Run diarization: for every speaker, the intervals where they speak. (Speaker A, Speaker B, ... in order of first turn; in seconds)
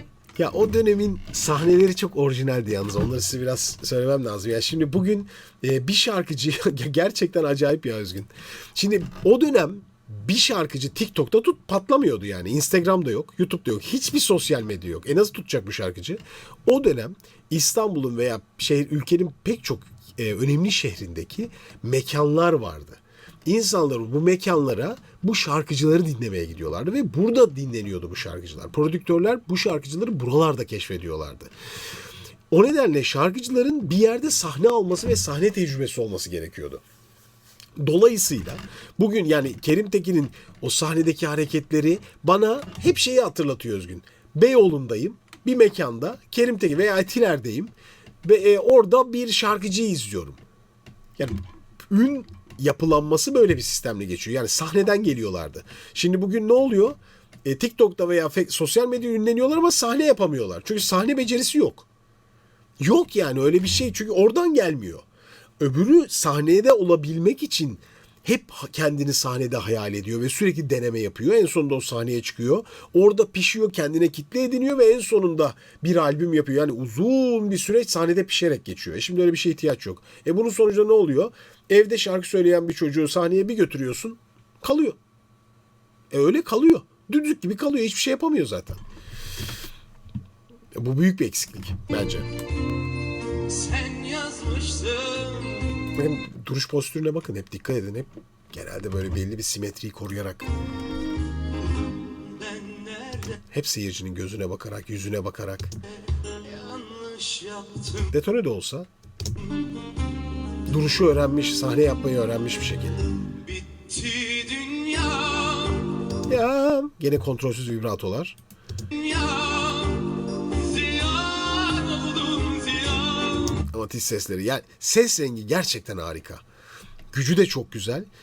Speaker A: 0.4-31.5, 32.5-36.8, 37.8-47.7, 48.2-50.4, 51.9-61.9, 62.8-65.0, 65.6-85.0, 86.1-88.8, 90.8-92.3, 95.9-100.5, 103.5-105.7, 108.1-108.9, 110.7-113.0, 116.2-118.4, 123.7-126.4, 127.1-128.1
Speaker B: 93.5-95.9, 102.2-103.4, 106.4-108.1, 113.3-116.0, 118.9-123.6